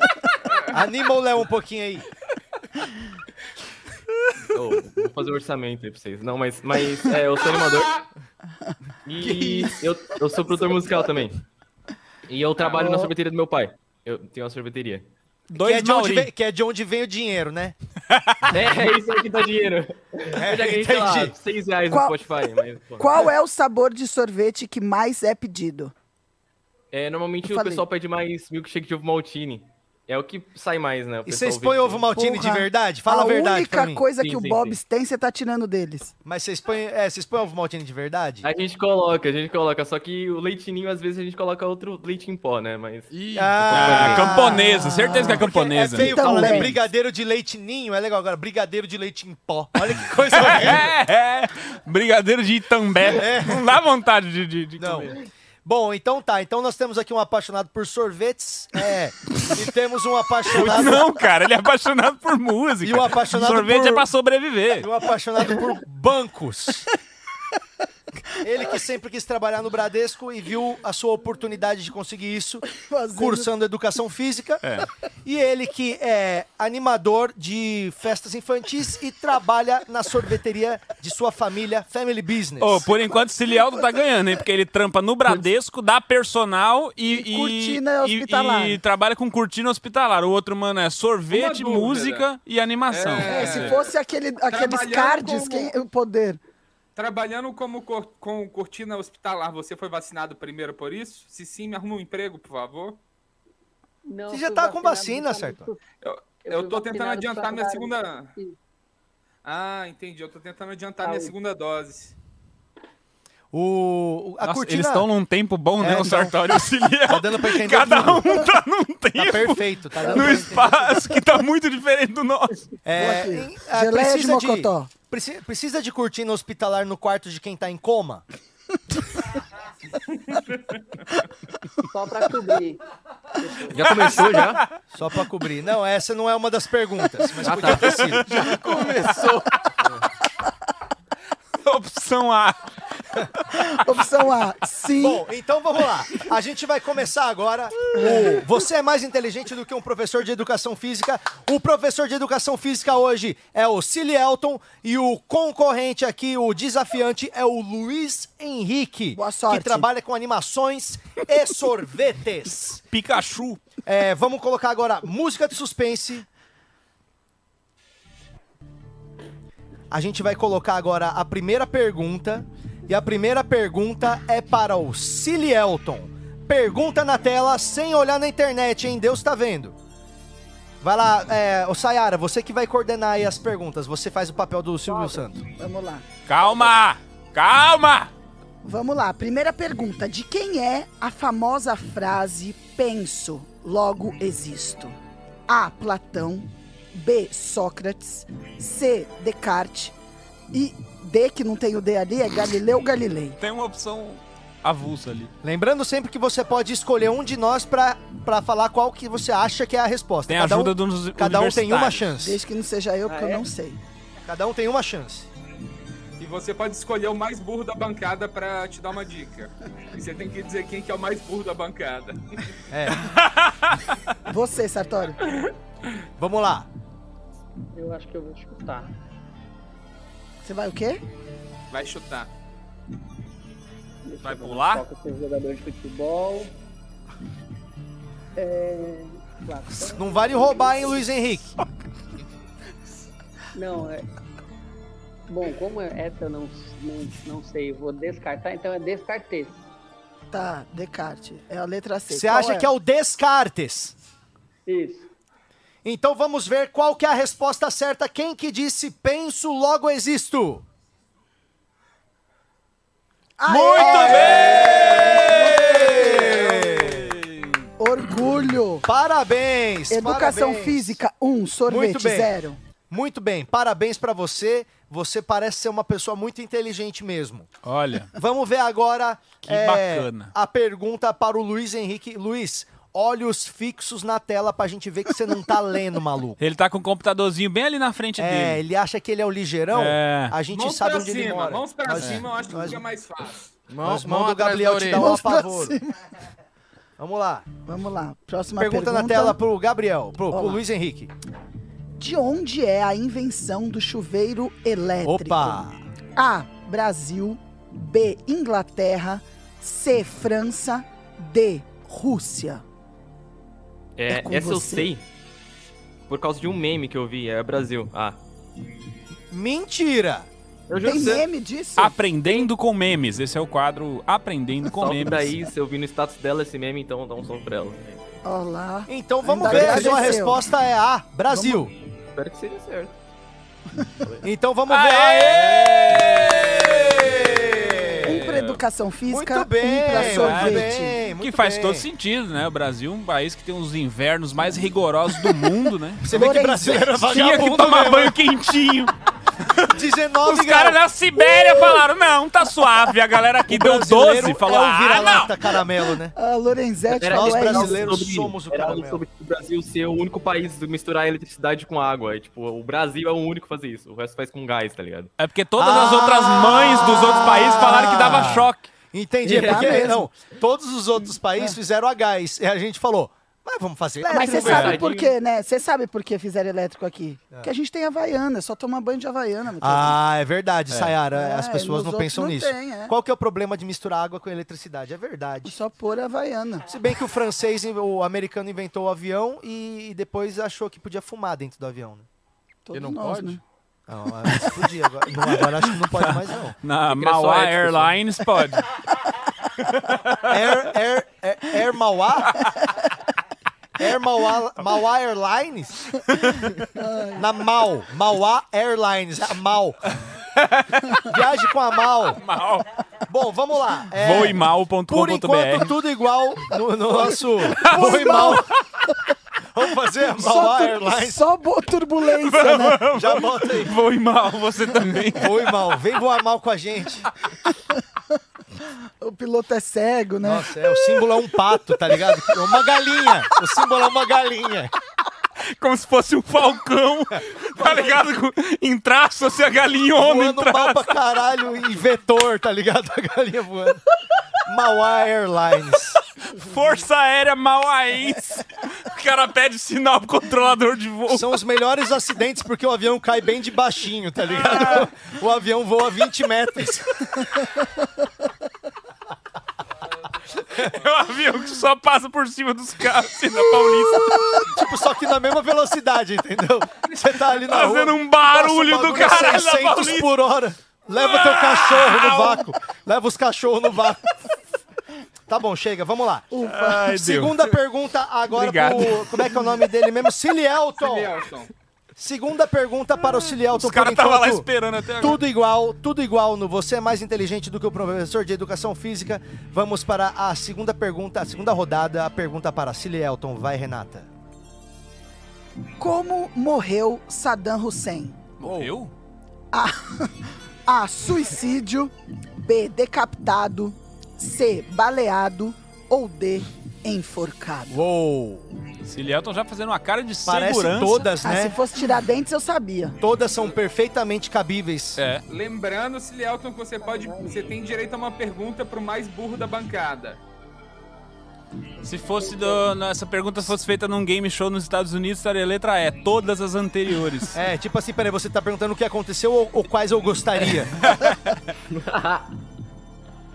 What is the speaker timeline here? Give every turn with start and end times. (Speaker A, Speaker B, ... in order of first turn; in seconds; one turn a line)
Speaker A: 0.7-2.1
Speaker B: 4.5-8.0
Speaker C: 7.6-8.1
Speaker B: 9.1-11.4
Speaker D: 9.2-9.8
Speaker B: 12.3-15.1
Speaker C: 12.6-12.9
Speaker E: 12.8-13.1
Speaker F: 15.5-16.3
Speaker A: 15.5-17.8
Speaker F: 18.1-18.6
Speaker B: 18.5-23.3
Speaker A: 20.3-21.4
Speaker G: 21.9-22.2
Speaker G: 23.0-25.9
Speaker B: 26.9-32.1
Speaker G: 27.5-27.8
Speaker A: 31.3-34.1
Speaker G: 32.1-36.1
Speaker B: 34.1-34.8
Speaker A: 36.2-38.5
Speaker B: 38.4-43.1
Speaker D: 43.1-44.4
Speaker A: 43.4-44.6
Speaker F: 43.7-46.7
Speaker G: 44.2-45.5
Speaker A: 45.1-51.0
Speaker G: 46.0-46.8
Speaker F: 50.3-55.2
Speaker A: 53.0-53.8
Speaker A: 54.8-61.1
Speaker F: 60.5-64.9
Speaker A: 62.8-64.1
Speaker A: 64.8-66.9
Speaker A: 68.4-74.6
Speaker G: 72.7-73.5
Speaker F: 74.6-74.9
Speaker A: 75.2-82.9
Speaker F: 82.6-93.8
Speaker G: 87.1-88.8
Speaker C: 91.3-92.3
Speaker C: 92.9-94.0
Speaker G: 93.2-96.4
Speaker C: 94.5-95.8
Speaker C: 97.0-103.0
Speaker E: 104.0-105.8
Speaker A: 104.3-105.7
Speaker C: 106.0-108.3
Speaker E: 106.5-108.6
Speaker C: 109.4-112.2
Speaker E: 111.0-111.3
Speaker A: 113.5-115.1
Speaker F: 114.4-122.6
Speaker A: 115.8-116.4
Speaker A: 117.0-118.5
Speaker A: 119.2-121.0
Speaker G: 120.0-120.7
Speaker A: 122.8-128.2
Speaker G: 123.0-124.9
Speaker C: 130.1-130.8
Speaker E: 131.9-132.8
Speaker E: 133.4-134.1
Speaker B: 133.7-134.7
Speaker F: 133.8-134.7
Speaker A: 134.9-138.6
Speaker F: 137.4-139.2
Speaker B: 137.4-137.9
Speaker D: 138.4-139.9
Speaker F: 141.6-143.7
Speaker G: 143.5-145.2
Speaker A: 145.0-162.8
Speaker G: 147.9-148.4
Speaker G: 159.1-159.9
Speaker F: 162.9-163.6
Speaker A: 163.8-166.3
Speaker A: 169.9-179.8
Speaker A: 180.8-185.4
Speaker E: 184.9-185.2
Speaker G: 185.6-186.1
Speaker F: 186.3-188.1
Speaker E: 186.4-186.7
Speaker G: 188.7-195.0
Speaker G: 195.5-199.9
Speaker G: 200.5-203.4
Speaker F: 203.4-205.3
Speaker A: 205.4-212.4
Speaker F: 210.3-212.1
Speaker G: 212.2-213.8
Speaker E: 213.1-213.4
Speaker A: 214.3-215.3
Speaker C: 216.2-222.5
Speaker A: 222.7-223.1
Speaker F: 223.2-223.6
Speaker G: 224.3-225.2
Speaker C: 225.3-225.5
Speaker A: 226.2-226.7
Speaker E: 227.7-228.9
Speaker G: 230.4-231.0
Speaker C: 231.7-232.3
Speaker E: 234.0-236.5
Speaker F: 234.2-234.8
Speaker E: 238.4-241.1
Speaker A: 239.8-241.6
Speaker E: 243.5-244.1
Speaker E: 245.3-249.7
Speaker G: 250.3-252.7
Speaker A: 252.1-253.9
Speaker E: 254.7-255.1
Speaker A: 255.8-260.6
Speaker G: 263.4-266.4
Speaker F: 263.5-267.6
Speaker A: 263.8-267.2
Speaker G: 267.8-268.9
Speaker A: 268.9-271.0
Speaker G: 269.9-272.6
Speaker A: 271.7-272.3
Speaker A: 272.9-277.5
Speaker F: 277.6-278.1
Speaker A: 278.2-286.4
Speaker F: 279.4-280.3
Speaker F: 286.4-288.6
Speaker A: 288.2-292.8
Speaker F: 289.7-290.4
Speaker C: 290.5-293.5
Speaker D: 293.7-295.2
Speaker A: 293.8-295.8
Speaker G: 294.9-295.9
Speaker A: 297.0-297.5
Speaker G: 297.7-299.4
Speaker A: 298.6-301.1
Speaker G: 300.3-300.6
Speaker G: 302.0-305.6
Speaker A: 305.0-305.8
Speaker G: 306.2-312.6
Speaker B: 314.0-315.0
Speaker G: 314.1-314.9
Speaker B: 316.1-318.2
Speaker A: 319.3-320.3
Speaker B: 320.7-321.3
Speaker G: 320.8-322.0
Speaker F: 321.8-325.4
Speaker B: 322.2-322.5
Speaker B: 324.6-328.2
Speaker G: 328.2-330.4
Speaker A: 328.9-331.7
Speaker B: 329.5-330.1
Speaker B: 332.1-333.0
Speaker A: 334.2-338.3
Speaker F: 334.7-338.6
Speaker G: 338.0-341.0
Speaker A: 339.1-341.9
Speaker F: 339.9-346.1
Speaker A: 346.0-348.2
Speaker G: 346.1-347.0
Speaker F: 347.0-348.9
Speaker F: 349.6-355.4
Speaker A: 349.7-350.8
Speaker A: 353.5-356.1
Speaker G: 356.2-357.9
Speaker B: 356.9-365.1
Speaker A: 357.1-359.0
Speaker F: 365.2-368.7
Speaker A: 365.6-374.8
Speaker G: 369.2-370.1
Speaker B: 369.2-370.0
Speaker G: 374.0-380.0
Speaker B: 374.1-375.1
Speaker F: 374.4-374.7
Speaker A: 379.6-385.6
Speaker F: 380.7-380.9
Speaker G: 381.1-382.9
Speaker G: 385.4-386.6
Speaker A: 386.7-392.1
Speaker G: 392.6-393.4
Speaker D: 392.7-393.4
Speaker A: 393.9-396.6
Speaker F: 394.3-394.7
Speaker F: 395.2-398.7
Speaker B: 396.9-398.0
Speaker F: 399.6-400.5
Speaker A: 400.2-402.4
Speaker F: 402.4-402.7
Speaker A: 403.8-405.9
Speaker F: 406.1-406.6
Speaker G: 406.8-407.2
Speaker A: 407.2-409.8
Speaker F: 410.2-411.1
Speaker A: 411.1-412.2
Speaker F: 412.2-412.7
Speaker A: 413.1-418.5
Speaker F: 413.9-415.8
Speaker F: 417.5-418.6
Speaker G: 417.6-418.4
Speaker A: 419.5-421.2
Speaker G: 420.2-422.8
Speaker F: 422.1-425.5
Speaker A: 422.9-423.8
Speaker A: 425.1-427.1
Speaker G: 429.0-430.9
Speaker A: 430.2-434.7
Speaker F: 435.4-441.0
Speaker A: 440.0-443.8
Speaker A: 444.4-446.0
Speaker F: 446.2-451.3
Speaker A: 451.1-457.3
Speaker F: 454.4-454.8
Speaker F: 460.4-464.4
Speaker A: 464.1-474.1
Speaker F: 467.5-470.1
Speaker F: 470.9-472.4
Speaker A: 475.3-476.3
Speaker G: 476.3-476.9
Speaker F: 476.4-477.4
Speaker A: 476.9-481.1
Speaker F: 478.3-479.3
Speaker C: 480.8-481.5
Speaker A: 482.0-494.1
Speaker F: 483.5-485.2
Speaker G: 495.8-498.2
Speaker F: 498.4-498.9
Speaker A: 498.4-498.8
Speaker G: 499.5-507.8
Speaker A: 507.7-508.5
Speaker F: 508.8-511.1
Speaker A: 510.3-511.6
Speaker G: 511.2-513.0
Speaker A: 513.0-515.0
Speaker F: 515.0-515.2
Speaker C: 515.3-520.2
Speaker E: 516.8-517.5
Speaker F: 521.8-527.4
Speaker E: 522.1-522.7
Speaker A: 527.3-530.8
Speaker F: 530.8-531.4
Speaker B: 531.7-532.3